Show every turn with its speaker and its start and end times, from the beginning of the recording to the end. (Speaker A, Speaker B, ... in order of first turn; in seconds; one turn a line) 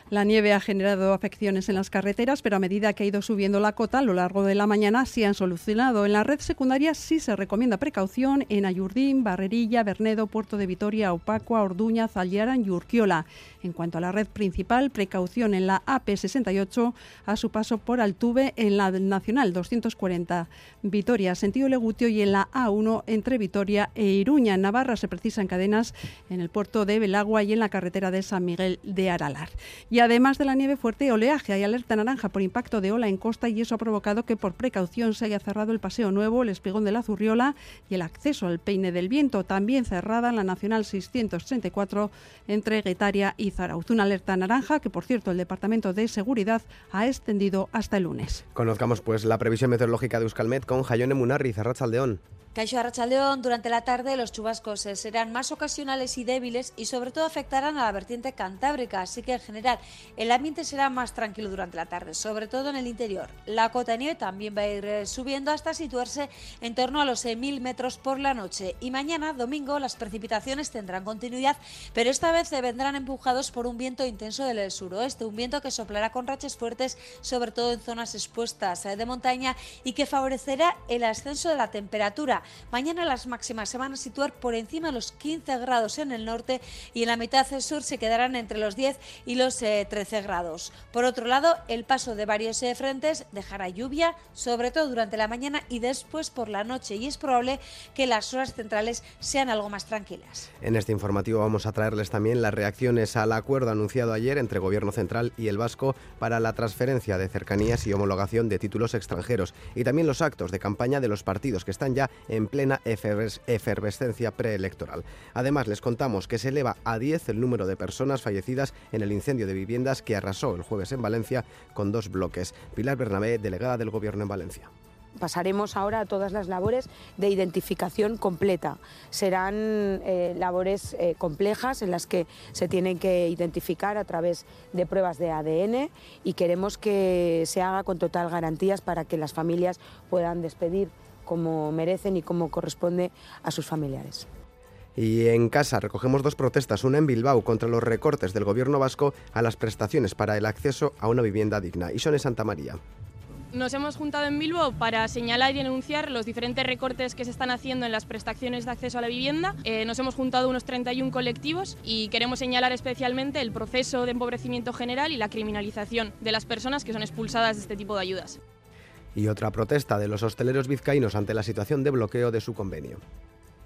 Speaker A: 0.1-48.4
Speaker B: 48.5-52.2
Speaker C: 52.5-100.5
Speaker B: 100.6-124.7
Speaker D: 125.2-144.3
Speaker B: 145.0-152.8
Speaker E: 153.5-168.4
Speaker B: 169.2-173.0